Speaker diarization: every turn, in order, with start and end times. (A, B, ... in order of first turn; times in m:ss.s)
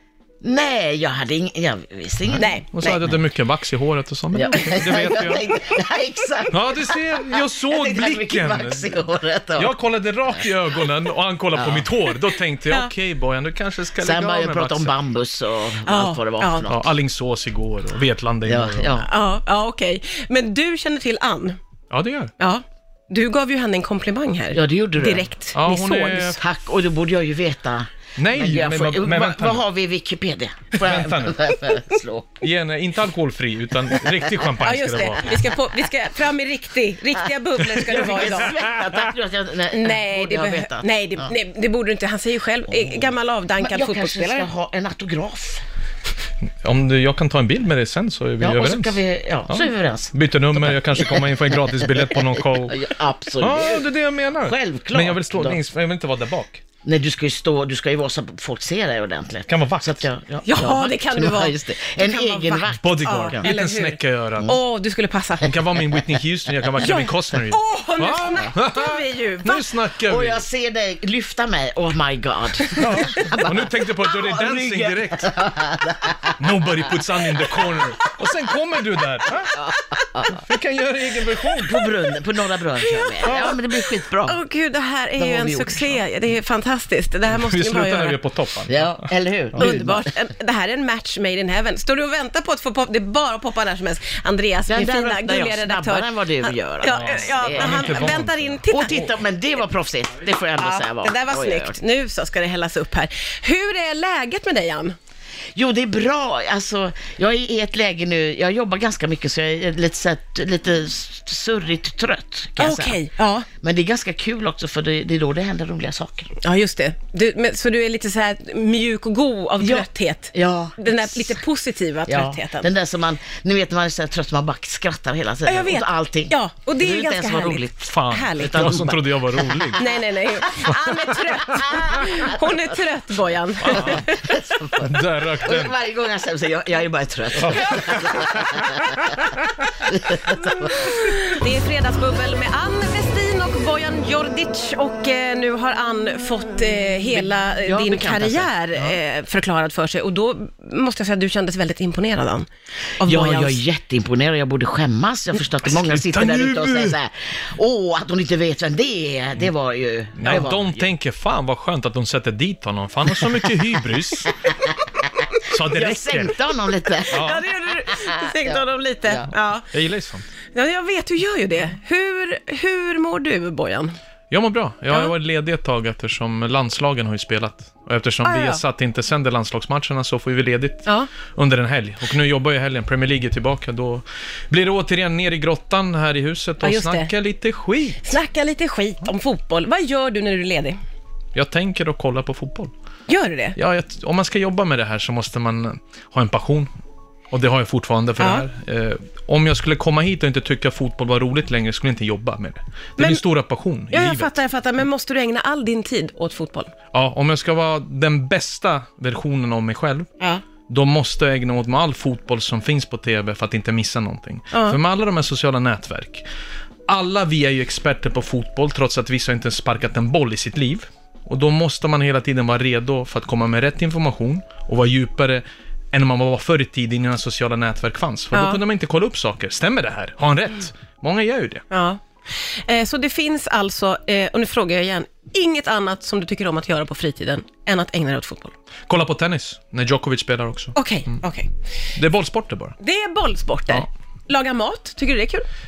0:00.4-0:02.5 A
0:02.4-0:03.0 B
0:02.7-0:05.4 C
0:04.3-0:09.7 A
0:06.5-0:09.0 C
0:09.6-0:14.9 C
0:11.5-0:12.0 A
0:14.0-0:16.9 A
0:15.8-0:16.7 B
0:16.7-0:19.0 C
0:18.4-0:19.1 A
0:19.0-0:21.6 B
0:21.9-0:22.3 C
0:22.4-0:26.4 B
0:24.5-0:25.3 A
0:25.5-0:26.4 C
0:26.4-0:32.4 A
0:28.2-0:29.6 C
0:30.7-0:31.6 C
0:32.4-0:35.4 C
0:34.6-0:38.5 B
0:37.8-0:41.3 A
0:37.9-0:38.8 C
0:39.7-0:44.5 B
0:42.7-0:45.6 A
0:46.4-0:52.8 C
0:48.4-0:53.8 A
0:53.4-0:56.6 C
0:54.4-0:55.6 A
0:56.8-1:03.5 A
0:59.5-1:00.0 C
1:00.4-1:05.6 B
1:02.8-1:04.6 C
1:05.4-1:10.4 C
1:06.8-1:09.6 B
1:10.1-1:16.4 A
1:12.8-1:15.3 C
1:16.4-1:19.6 C
1:19.5-1:20.4 A
1:20.3-1:21.8 C
1:21.6-1:24.4 A
1:22.8-1:23.6 B
1:24.2-1:28.2 B
1:25.2-1:26.0 A
1:27.3-1:29.8 C
1:28.7-1:30.1 A
1:29.6-1:39.1 B
1:34.7-1:38.1 A
1:36.9-1:38.6 C
1:38.7-1:41.8 A
1:40.5-1:45.0 B
1:45.5-1:53.0 A
1:52.6-1:53.5 B
1:53.6-1:56.3 A
1:56.4-2:02.7 B
1:59.6-2:01.4 A
2:02.1-2:09.8 A
2:05.4-2:08.6 B
2:07.8-2:09.8 C
2:09.8-2:14.3 B
2:10.6-2:10.9 C
2:11.5-2:12.0 A
2:13.6-2:14.0 C
2:13.7-2:19.2 A
2:14.8-2:15.7 C
2:17.4-2:18.4 C
2:19.8-2:20.9 A
2:20.6-2:32.5 B
2:27.1-2:28.5 A
2:33.0-2:33.6 B
2:33.0-2:40.8 A
2:35.6-2:37.0 C
2:40.2-2:44.4 C
2:44.4-2:47.4 A
2:45.5-2:46.4 C
2:47.1-2:47.4 C
2:47.1-2:49.6 B
2:47.9-2:49.3 A
2:49.7-2:50.3 C
2:50.5-2:54.0 B
2:54.3-3:08.0 C
2:58.2-2:58.6 B
3:06.6-3:07.1 B
3:08.0-3:10.8 B
3:11.3-3:12.7 C
3:13.1-3:13.6 B
3:13.6-3:16.7 C
3:17.3-3:24.4 C
3:18.2-3:18.4 B
3:23.0-3:23.2 B
3:23.9-3:26.7 B
3:26.9-3:30.1 C
3:30.7-3:36.2 C
3:34.5-3:34.8 B
3:36.9-3:51.6 C
3:48.3-3:48.6 B
3:51.7-3:58.5 B
3:58.9-4:01.2 C
4:00.7-4:01.5 B
4:01.9-4:02.8 C
4:02.8-4:05.4 B